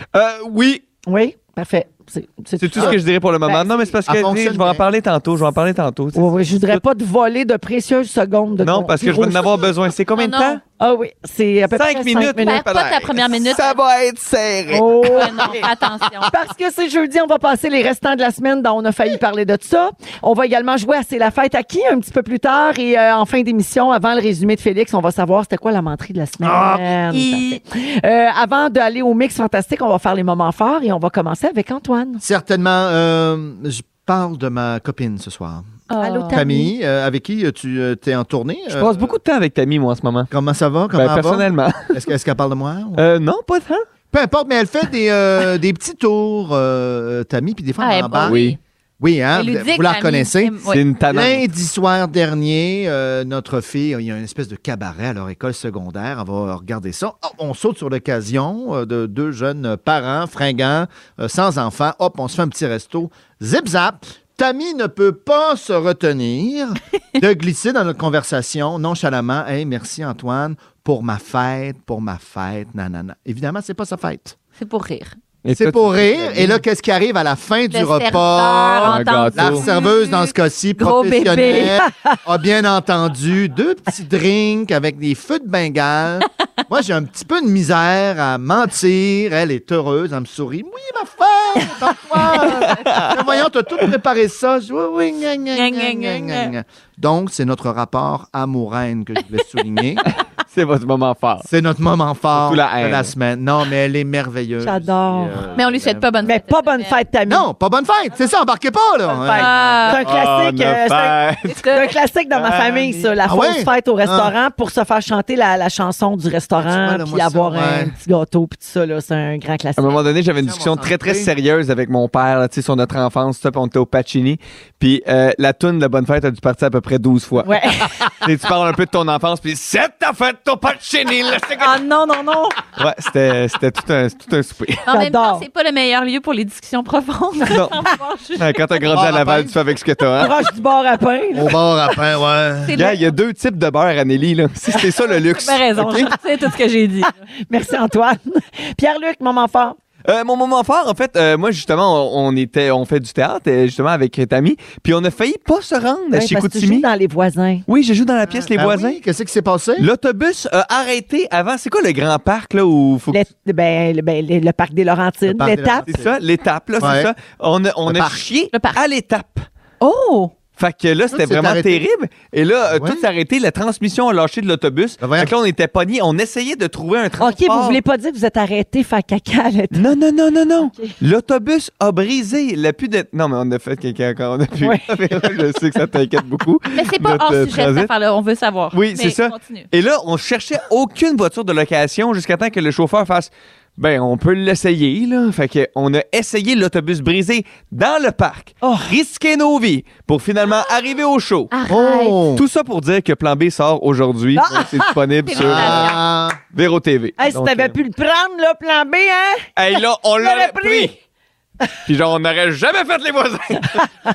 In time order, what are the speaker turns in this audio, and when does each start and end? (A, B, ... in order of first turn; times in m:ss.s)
0:00.1-0:00.8 A
0:01.1-0:03.9 B
0:02.6-0:06.8 A
0:04.0-0:04.8 C
0:06.1-0:09.6 B
0:08.6-0:10.6 A
0:10.2-0:10.6 D
0:10.8-0:12.6 B
0:11.7-0:15.2 A
0:12.4-0:13.8 D
0:14.7-0:15.7 B
0:15.0-0:16.3 D
0:16.3-0:32.2 B
0:26.4-0:26.9 C
0:27.1-0:27.6 D
0:32.2-0:35.7 C
0:35.9-0:36.4 D
0:36.0-0:36.7 B
0:36.3-0:39.2 C
0:38.7-0:40.3 A
0:40.3-0:43.0 C
0:40.9-0:42.0 A
0:43.0-0:43.8 A
0:44.1-0:48.4 C
0:47.8-0:48.6 D
0:48.2-0:48.6 A
0:49.0-1:14.4 C
0:49.3-0:50.8 D
0:50.7-0:51.4 A
1:14.6-1:15.2 D
1:15.4-1:16.6 A
1:15.5-1:40.0 C
1:17.7-1:21.8 D
1:18.8-1:19.6 A
1:32.4-1:33.3 A
1:35.5-1:36.5 D
1:40.5-1:41.5 A
1:41.4-1:46.3 C
1:42.3-1:43.1 A
1:44.6-1:45.5 B
1:45.5-1:47.0 D
1:46.2-1:47.5 B
1:47.2-1:49.8 C
1:49.1-2:00.0 B
1:49.3-1:50.0 D
1:49.9-1:51.6 A
1:51.5-1:51.9 D
1:52.3-1:53.1 A
1:53.2-1:54.3 C
1:56.6-1:57.9 C
1:59.8-2:11.8 A
2:00.3-2:01.3 C
2:07.4-2:08.1 B
2:11.7-2:12.4 D
2:12.7-2:14.8 A
2:14.9-2:18.6 D
2:14.9-2:15.4 B
2:17.5-2:17.8 A
2:18.4-2:20.4 A
2:18.9-2:19.6 C
2:20.2-2:21.6 B
2:21.3-2:22.8 C
2:22.6-2:23.0 D
2:22.7-2:26.2 A
2:25.3-2:27.2 D
2:27.5-2:29.8 B
2:30.0-2:36.9 A
2:36.1-2:37.6 B
2:37.7-2:39.0 A
2:38.2-2:39.9 C
2:39.8-2:43.2 A
2:43.1-2:45.8 B
2:45.2-2:46.1 C
2:45.9-2:49.5 A
2:46.8-2:47.1 C
2:47.8-2:48.2 C
2:48.5-2:48.8 D
2:49.8-2:50.3 D
2:50.6-2:57.8 A
2:51.1-2:51.8 C
2:52.7-2:53.0 C
2:55.0-2:55.3 C
2:57.2-2:59.8 B
2:59.7-3:07.9 A
3:04.6-3:04.9 B
3:06.7-3:09.7 D
3:08.7-3:21.5 A
3:18.6-3:18.9 B
3:21.5-3:22.2 D
3:21.7-3:22.4 C
3:22.3-3:25.9 A
3:24.4-3:24.7 B
3:25.2-3:26.0 D
3:25.3-3:26.4 C
3:26.5-3:27.8 A
3:27.2-3:29.5 B
3:29.6-3:30.9 A
3:30.2-3:30.9 B
3:31.8-3:33.8 A